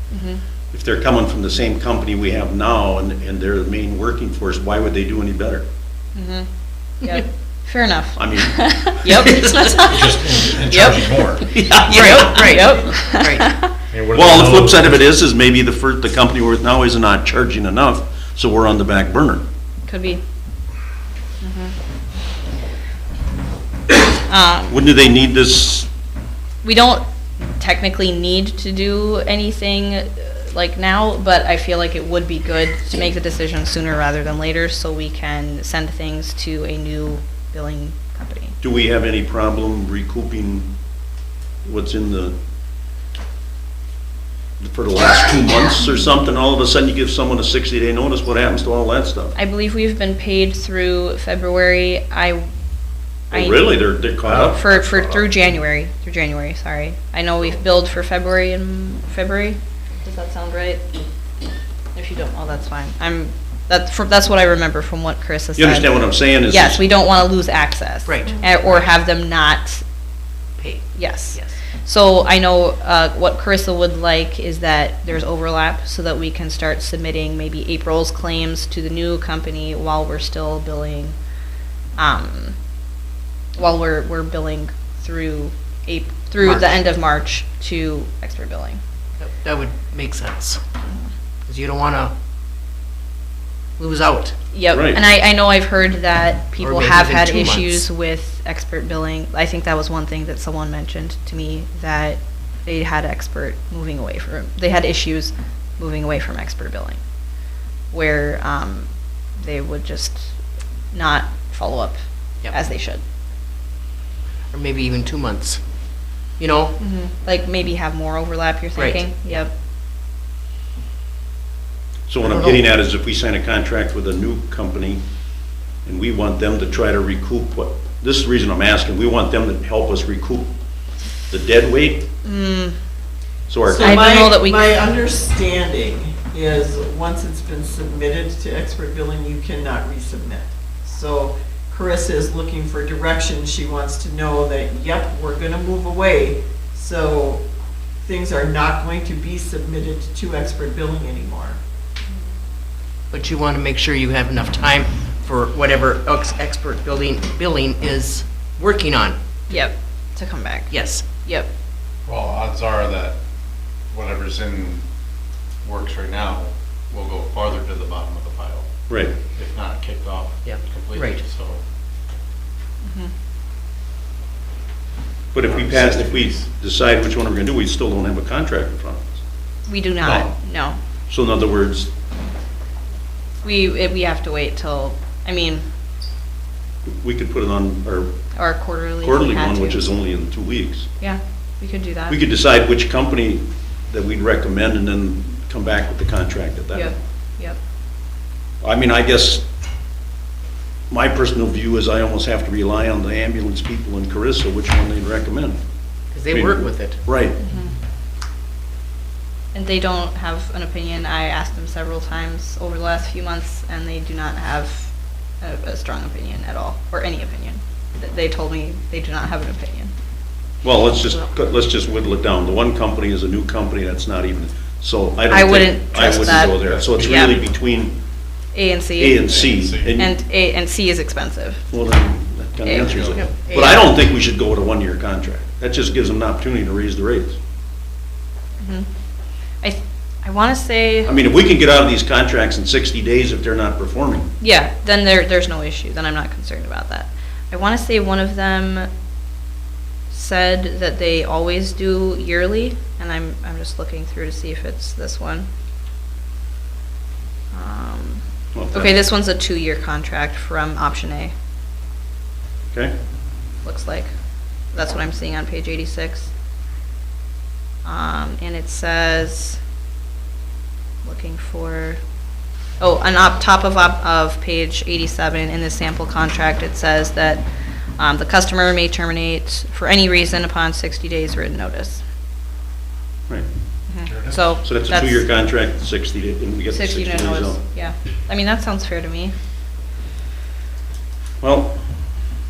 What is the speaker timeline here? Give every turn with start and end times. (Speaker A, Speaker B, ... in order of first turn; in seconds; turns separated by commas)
Speaker A: 0.1-0.4, Speaker B: 0.7-5.6, Speaker A: 6.1-6.5, Speaker A: 7.0-11.3, Speaker B: 8.2-9.0, Speaker C: 9.8-11.8, Speaker B: 11.5-12.4, Speaker D: 11.8-13.5, Speaker A: 11.9-13.7, Speaker C: 13.9-15.0, Speaker B: 14.1-19.4, Speaker A: 19.9-20.2, Speaker A: 21.4-21.7, Speaker A: 24.3-24.8, Speaker B: 24.7-25.9, Speaker A: 26.6-38.5, Speaker B: 38.6-40.7, Speaker B: 41.6-42.4, Speaker B: 44.6-49.3, Speaker A: 49.3-52.5, Speaker A: 53.3-53.9, Speaker B: 53.3-54.6, Speaker C: 54.2-55.3, Speaker A: 54.5-60.8, Speaker A: 61.9-69.8, Speaker B: 65.5-66.8, Speaker D: 68.0-68.9, Speaker D: 70.6-71.6, Speaker A: 71.0-81.1, Speaker A: 82.0-82.6, Speaker A: 83.5-88.8, Speaker D: 86.4-86.8, Speaker D: 89.2-90.6, Speaker D: 91.5-92.1, Speaker D: 93.8-94.3, Speaker A: 94.5-107.0, Speaker B: 94.7-95.0, Speaker D: 96.6-97.9, Speaker A: 107.9-110.3, Speaker A: 110.9-113.0, Speaker D: 114.5-116.8, Speaker A: 116.8-119.5, Speaker D: 118.7-119.5, Speaker B: 122.1-125.0, Speaker D: 122.2-122.6, Speaker B: 125.8-130.5, Speaker B: 131.3-132.1, Speaker A: 132.2-132.8, Speaker B: 133.5-134.1, Speaker E: 133.6-147.4, Speaker A: 133.8-134.7, Speaker E: 148.0-151.6, Speaker D: 153.1-159.2, Speaker A: 159.5-161.5, Speaker D: 160.7-161.1, Speaker C: 162.1-163.2, Speaker C: 163.9-164.8, Speaker C: 165.6-168.7, Speaker B: 168.9-169.1, Speaker C: 169.2-171.6, Speaker D: 170.4-171.2, Speaker A: 172.8-173.1, Speaker B: 175.3-179.2, Speaker C: 175.4-176.4, Speaker A: 179.7-180.8, Speaker C: 180.0-180.3, Speaker B: 181.1-181.9, Speaker A: 183.4-185.6, Speaker B: 186.8-188.2, Speaker A: 188.3-189.9, Speaker B: 189.0-190.9, Speaker A: 191.0-192.2, Speaker B: 192.1-196.9, Speaker A: 196.7-197.6, Speaker B: 198.6-199.4, Speaker B: 200.9-205.6, Speaker D: 206.1-207.0, Speaker B: 206.3-207.4, Speaker A: 207.4-207.7, Speaker A: 209.5-219.9, Speaker B: 220.6-227.9, Speaker A: 225.3-227.4, Speaker C: 226.1-227.5, Speaker A: 228.5-229.2, Speaker B: 229.0-230.1, Speaker C: 229.2-229.9, Speaker A: 229.9-231.7, Speaker B: 231.7-237.4, Speaker A: 232.6-233.9, Speaker C: 232.8-233.2, Speaker D: 233.1-233.8, Speaker A: 238.6-238.8, Speaker A: 239.6-241.1, Speaker B: 241.1-244.3, Speaker A: 244.4-248.9, Speaker A: 250.1-255.5, Speaker A: 257.5-261.3, Speaker B: 258.5-258.9, Speaker A: 263.6-264.1, Speaker A: 264.6-266.3, Speaker A: 267.8-269.6, Speaker A: 271.0-272.0, Speaker A: 272.8-277.4, Speaker A: 278.0-282.0, Speaker A: 283.9-285.4, Speaker C: 284.0-284.6, Speaker B: 284.6-287.6, Speaker A: 286.7-289.3, Speaker B: 291.4-292.2